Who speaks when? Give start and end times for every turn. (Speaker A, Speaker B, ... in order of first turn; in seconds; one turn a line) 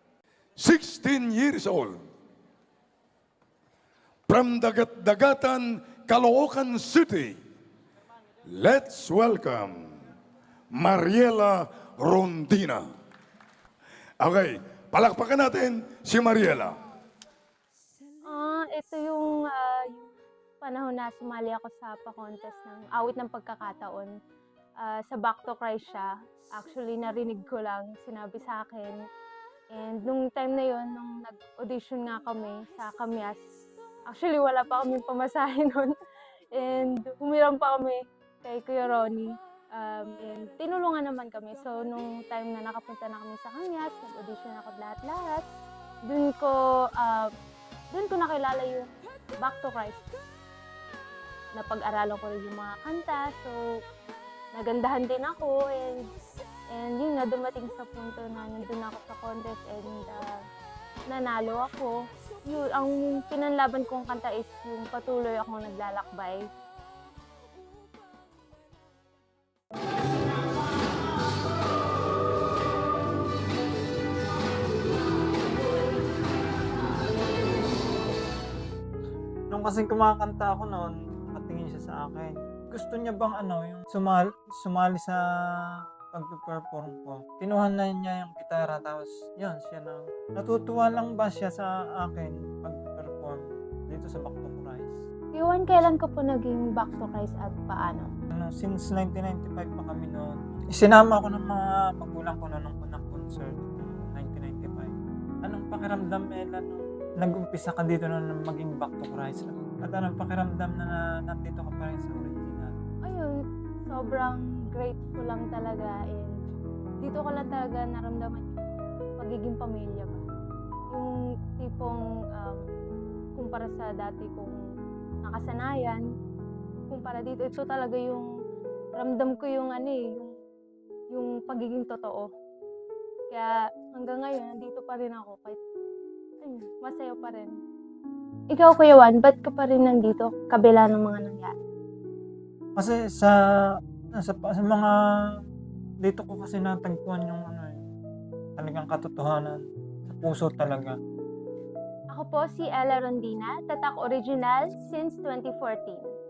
Speaker A: 0.6-2.0
Speaker A: 4.3-7.4
Speaker A: 8.5-9.9
Speaker A: 10.7-12.9
Speaker A: 14.2-16.8
Speaker B: 18.2-24.1
Speaker B: 24.8-29.0
Speaker B: 29.7-33.5
Speaker B: 34.1-35.9
Speaker B: 36.5-45.5
Speaker B: 46.1-47.3
Speaker B: 47.9-50.1
Speaker B: 51.5-53.6
Speaker B: 54.6-56.1
Speaker B: 56.7-60.3
Speaker B: 61.1-62.0
Speaker B: 62.5-66.5
Speaker C: 79.5-95.0
Speaker B: 95.3-98.1
Speaker C: 98.3-112.8
Speaker B: 113.1-113.3
Speaker B: 113.9-116.3
Speaker B: 117.0-118.6
Speaker B: 119.2-120.2
Speaker B: 120.9-122.6
Speaker B: 123.4-124.6
Speaker B: 125.2-126.0
Speaker B: 126.9-128.3
Speaker B: 129.0-130.3
Speaker B: 131.1-132.3
Speaker B: 133.3-135.6
Speaker B: 136.4-137.5
Speaker B: 138.5-141.6
Speaker C: 142.8-143.3
Speaker C: 144.1-145.3
Speaker C: 146.0-147.9
Speaker C: 148.6-151.0
Speaker B: 152.1-156.1